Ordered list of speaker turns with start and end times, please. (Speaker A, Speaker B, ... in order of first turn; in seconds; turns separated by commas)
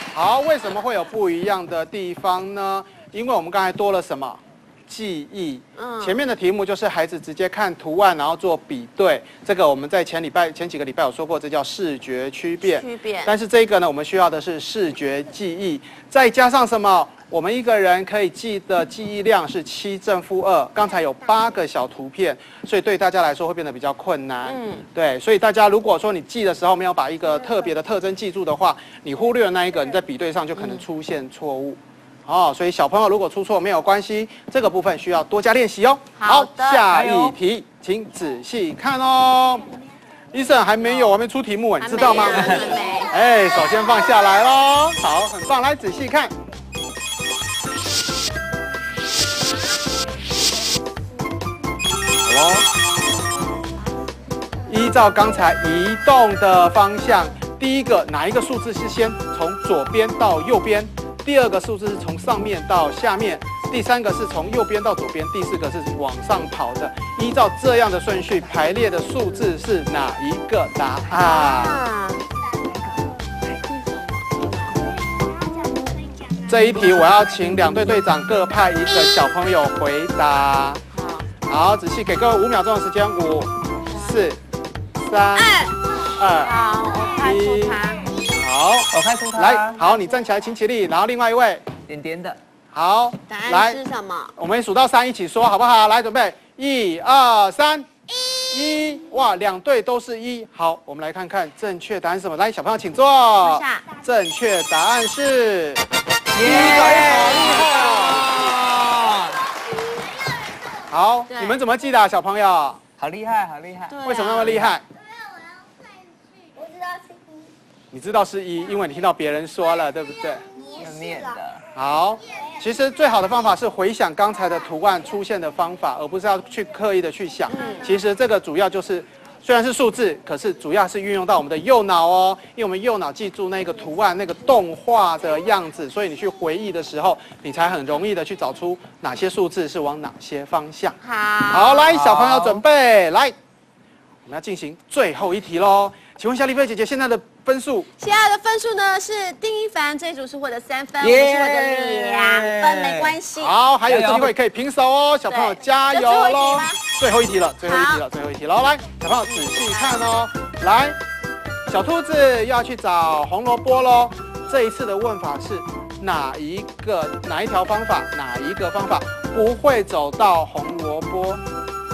Speaker A: 0.1-39.7, Speaker B: 5.8-6.2, Speaker B: 12.7-13.3, Speaker B: 24.5-24.8, Speaker B: 30.6-30.8, Speaker B: 36.2-36.9, Speaker C: 36.9-37.4, Speaker A: 40.3-46.3, Speaker C: 40.8-41.1, Speaker B: 41.8-43.1, Speaker C: 42.0-42.6, Speaker A: 52.2-52.7, Speaker A: 54.7-71.8, Speaker B: 71.1-72.2, Speaker B: 73.5-74.8, Speaker A: 76.5-80.8, Speaker B: 80.9-81.3, Speaker A: 81.5-84.4, Speaker B: 83.9-84.2, Speaker A: 85.0-85.6, Speaker B: 85.4-85.8, Speaker A: 86.2-86.6, Speaker B: 86.4-88.1, Speaker A: 87.2-87.8, Speaker A: 88.3-91.7, Speaker C: 88.9-89.8, Speaker C: 91.9-92.4, Speaker A: 92.7-93.8, Speaker B: 93.3-94.3, Speaker A: 94.4-105.8, Speaker B: 103.4-103.9, Speaker C: 106.3-109.5, Speaker A: 106.4-108.4, Speaker A: 110.9-112.8, Speaker B: 111.3-111.6, Speaker C: 113.0-114.7, Speaker B: 113.9-114.5, Speaker A: 114.0-114.8, Speaker A: 117.9-120.4, Speaker C: 120.8-121.6, Speaker A: 121.8-141.0, Speaker B: 127.5-127.9, Speaker B: 141.0-141.9, Speaker A: 141.5-143.3, Speaker C: 141.9-142.6, Speaker A: 144.3-147.9, Speaker B: 148.0-153.5, Speaker C: 151.0-153.2, Speaker A: 153.4-161.0, Speaker C: 153.9-154.3, Speaker B: 155.3-156.8, Speaker B: 157.6-158.0, Speaker B: 159.3-160.1, Speaker A: 161.7-171.4